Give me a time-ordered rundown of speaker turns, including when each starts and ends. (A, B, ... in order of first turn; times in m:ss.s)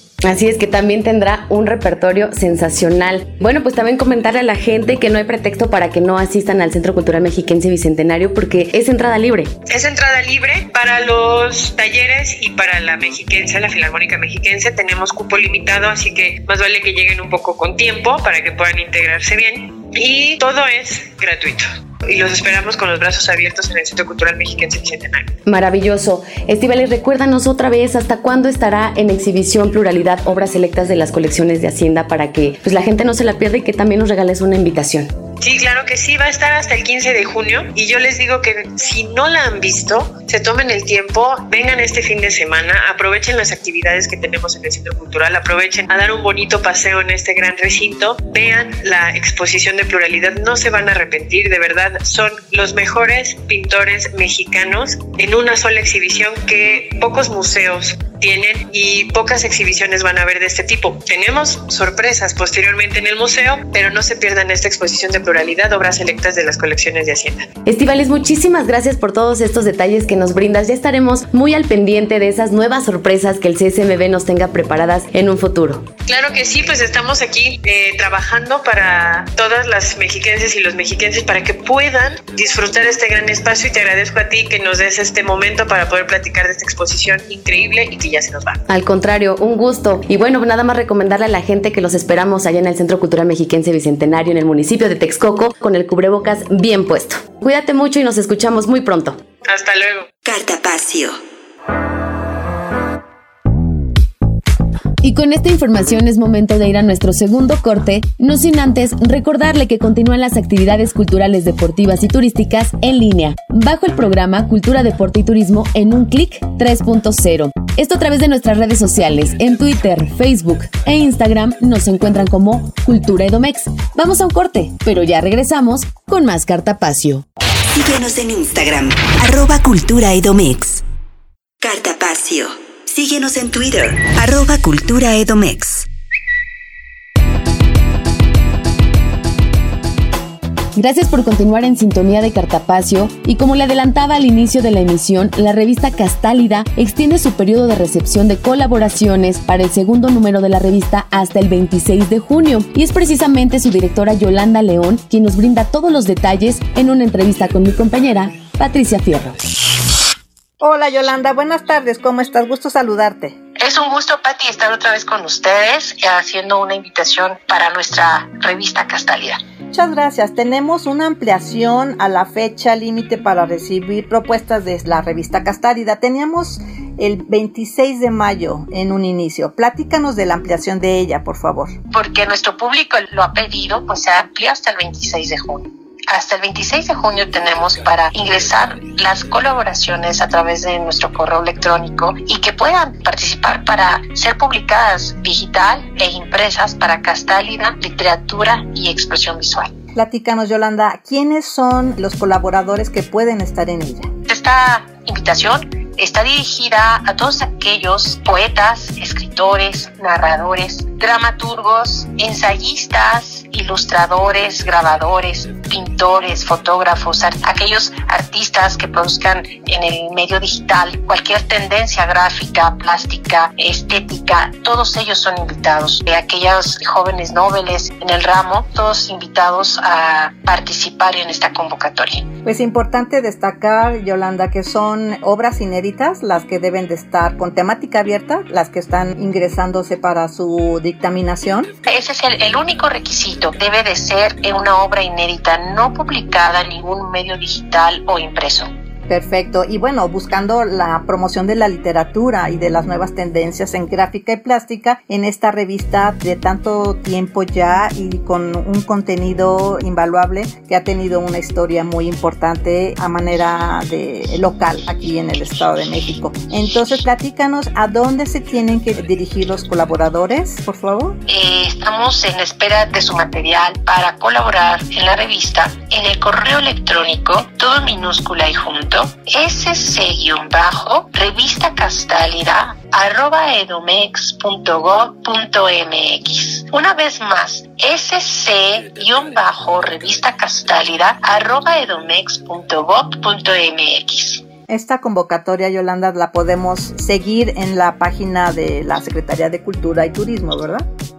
0:00.2-0:09.5 A
0:09.7-0:25.3 B
0:25.5-0:35.1 A
0:35.4-1:07.5 B
1:07.7-1:15.9 A
1:16.1-1:28.6 B
1:28.7-1:39.2 A
1:39.4-1:40.1 B
1:40.2-1:41.2 C
1:45.0-2:07.2 A
2:07.7-2:10.8 C
2:11.6-2:15.9 C
2:20.8-2:39.4 A
2:40.6-2:43.4 D
2:43.6-2:49.4 E
2:49.7-3:01.8 D
3:01.9-3:19.7 E
3:20.0-3:24.1 D
3:24.3-3:52.3 E
3:52.4-4:01.7 D
4:01.9-4:08.7 E
4:09.1-4:31.2 D
4:31.3-4:54.4 E
4:54.7-5:00.9 D